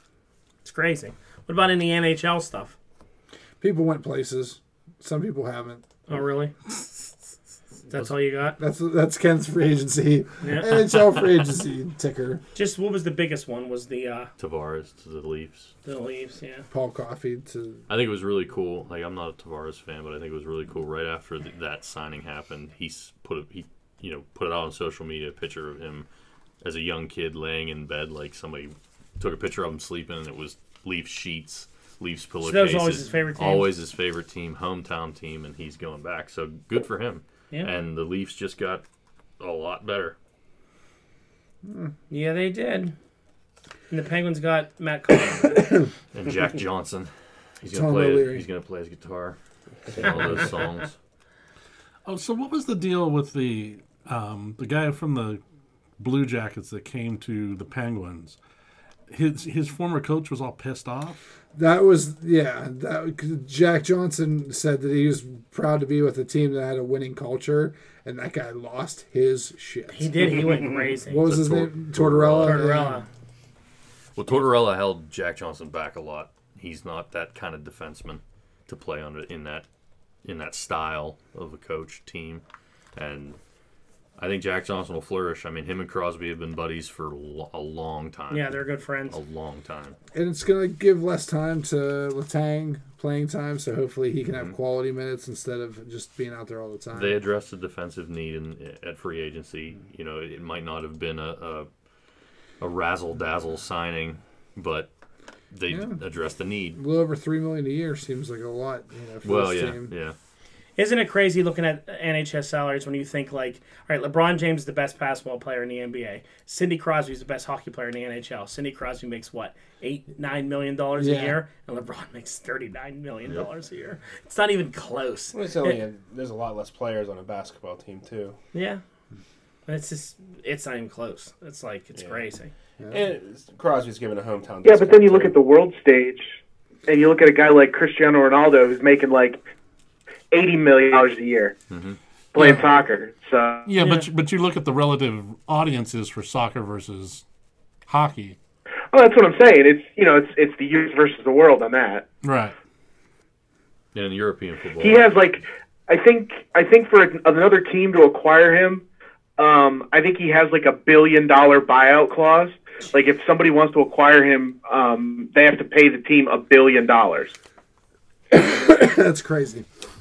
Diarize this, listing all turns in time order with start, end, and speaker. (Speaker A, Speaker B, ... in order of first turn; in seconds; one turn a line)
Speaker A: 0.6-2.7
Speaker B: 3.6-5.8
Speaker A: 6.1-6.5
Speaker A: 7.9-8.6
Speaker B: 8.6-12.4
Speaker A: 10.4-10.8
Speaker A: 12.5-14.3
Speaker C: 14.4-15.7
Speaker A: 15.8-16.6
Speaker B: 16.7-17.8
Speaker C: 17.9-26.1
Speaker C: 26.6-38.8
Speaker A: 32.4-33.7
Speaker C: 39.4-40.1
Speaker A: 42.1-42.9
Speaker A: 43.9-45.6
Speaker C: 46.1-49.4
Speaker B: 47.6-48.4
Speaker C: 49.9-51.0
Speaker D: 52.0-55.4
Speaker D: 56.0-58.4
Speaker D: 59.1-61.3
Speaker B: 61.5-70.5
Speaker A: 69.9-71.4
Speaker B: 71.0-73.0
Speaker C: 71.3-72.6
Speaker A: 72.3-73.0
Speaker C: 74.2-79.7
Speaker C: 80.2-82.4
Speaker C: 83.0-83.4
Speaker C: 84.2-88.5
Speaker A: 88.3-89.2
Speaker C: 89.1-90.0
Speaker B: 90.1-97.2
Speaker C: 96.9-101.7
Speaker C: 102.6-104.9
Speaker C: 105.5-106.8
Speaker B: 105.7-106.0
Speaker B: 106.8-109.9
Speaker C: 109.2-110.1
Speaker A: 110.8-125.8
Speaker B: 121.0-121.4
Speaker E: 125.3-128.4
Speaker A: 128.5-128.8
Speaker A: 129.7-132.5
Speaker E: 132.9-135.3
Speaker F: 134.6-136.3
Speaker F: 136.9-139.4
Speaker F: 140.3-141.5
Speaker C: 141.7-142.0
Speaker F: 142.3-143.7
Speaker D: 143.7-147.2
Speaker A: 143.8-144.1
Speaker D: 147.9-148.3
Speaker F: 148.9-152.0
Speaker D: 152.2-152.5
Speaker C: 153.9-155.1
Speaker F: 154.8-158.8
Speaker F: 159.4-167.3
Speaker B: 168.3-169.7